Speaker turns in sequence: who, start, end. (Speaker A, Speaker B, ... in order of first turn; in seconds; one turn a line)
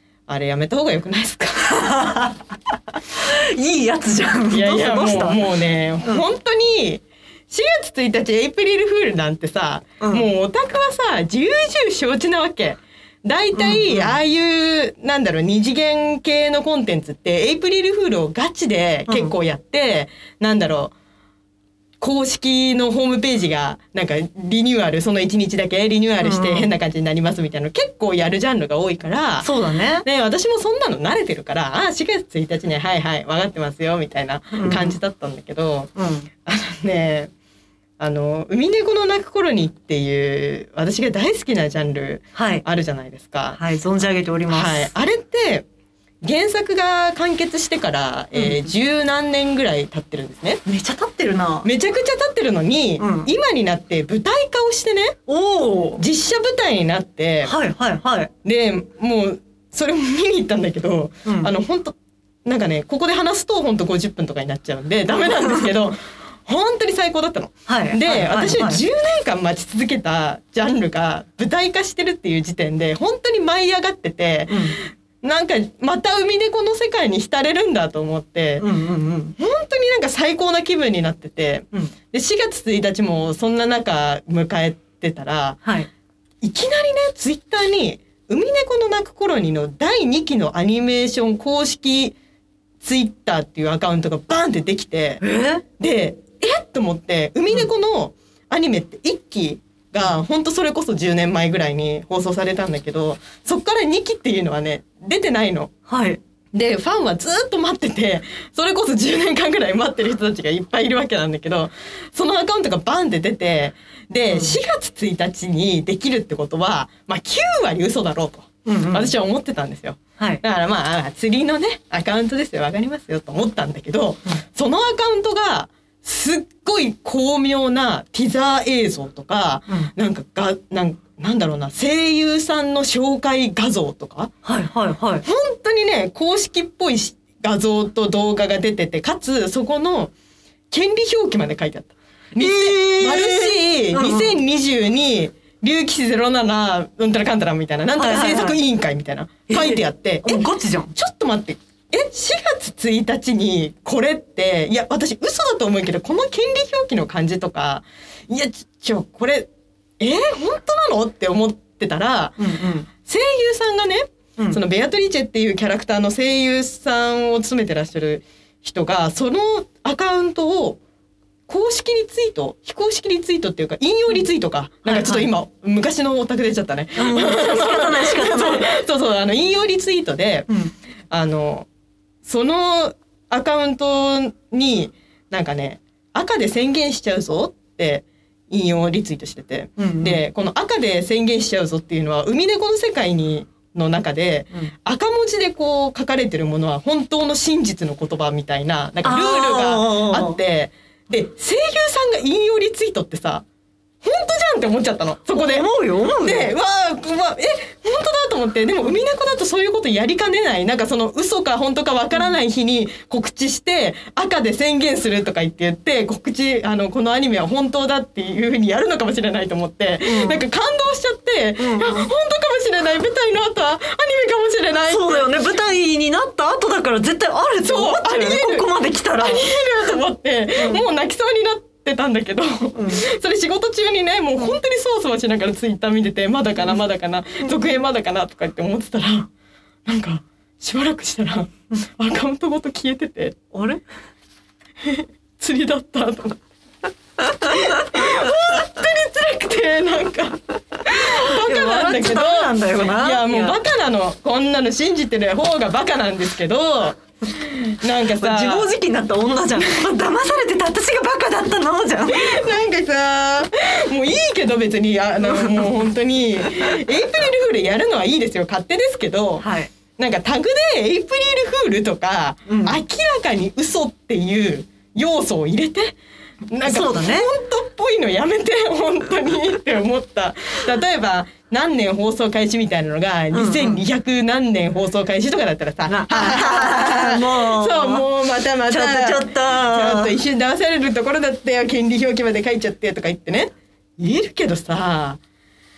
Speaker A: 0.3-1.7
Speaker B: 1.6-2.4
Speaker B: 2.9-5.4
Speaker A: 4.5-20.9
Speaker B: 10.0-10.2
Speaker B: 13.5-14.2
Speaker B: 19.1-19.3
Speaker A: 22.0-29.5
Speaker B: 26.2-26.7
Speaker B: 29.4-30.0
Speaker A: 30.0-35.9
Speaker B: 34.5-35.0
Speaker B: 36.0-36.3
Speaker A: 36.4-37.3
Speaker A: 38.0-43.6
Speaker B: 42.3-42.6
Speaker B: 43.5-44.9
Speaker A: 44.5-45.7
Speaker A: 46.2-50.6
Speaker B: 48.3-48.6
Speaker B: 50.6-51.7
Speaker A: 51.6-55.2
Speaker B: 53.0-53.3
Speaker B: 55.3-56.0
Speaker A: 56.0-57.5
Speaker B: 57.4-58.3
Speaker A: 58.4-78.7
Speaker B: 61.2-61.5
Speaker B: 67.7-68.8
Speaker B: 74.5-74.8
Speaker B: 78.6-79.3
Speaker A: 79.4-85.6
Speaker B: 85.6-85.9
Speaker A: 86.4-92.2
Speaker A: 92.8-95.2
Speaker B: 95.2-95.6
Speaker A: 95.8-105.7
Speaker B: 105.9-106.2
Speaker A: 106.5-134.3
Speaker B: 114.3-114.6
Speaker B: 118.7-119.1
Speaker B: 134.4-135.2
Speaker A: 135.2-140.1
Speaker A: 140.7-159.5
Speaker B: 142.4-144.4
Speaker B: 147.9-148.6
Speaker B: 149.5-150.9
Speaker A: 160.0-170.8
Speaker B: 162.4-162.9
Speaker A: 171.5-180.5
Speaker B: 174.8-175.3
Speaker B: 176.9-178.7
Speaker B: 180.5-180.7
Speaker A: 181.1-181.7
Speaker A: 182.2-203.4
Speaker B: 189.8-190.2
Speaker B: 199.0-200.4
Speaker A: 204.0-205.7
Speaker B: 205.3-206.5
Speaker A: 206.2-225.3
Speaker B: 220.0-220.4
Speaker B: 221.6-222.1
Speaker B: 224.9-229.5
Speaker A: 227.6-228.7
Speaker A: 229.2-239.3
Speaker B: 230.6-230.8
Speaker B: 232.8-233.0
Speaker A: 239.8-243.4
Speaker B: 243.5-243.8
Speaker A: 244.8-246.4
Speaker A: 247.2-258.7
Speaker B: 251.2-253.6
Speaker B: 258.2-262.4
Speaker A: 262.1-275.9
Speaker B: 265.2-265.7
Speaker B: 269.4-269.7
Speaker B: 272.5-272.8
Speaker A: 276.5-295.2
Speaker B: 276.6-277.3
Speaker B: 283.3-283.8
Speaker B: 285.9-288.1
Speaker B: 288.7-290.1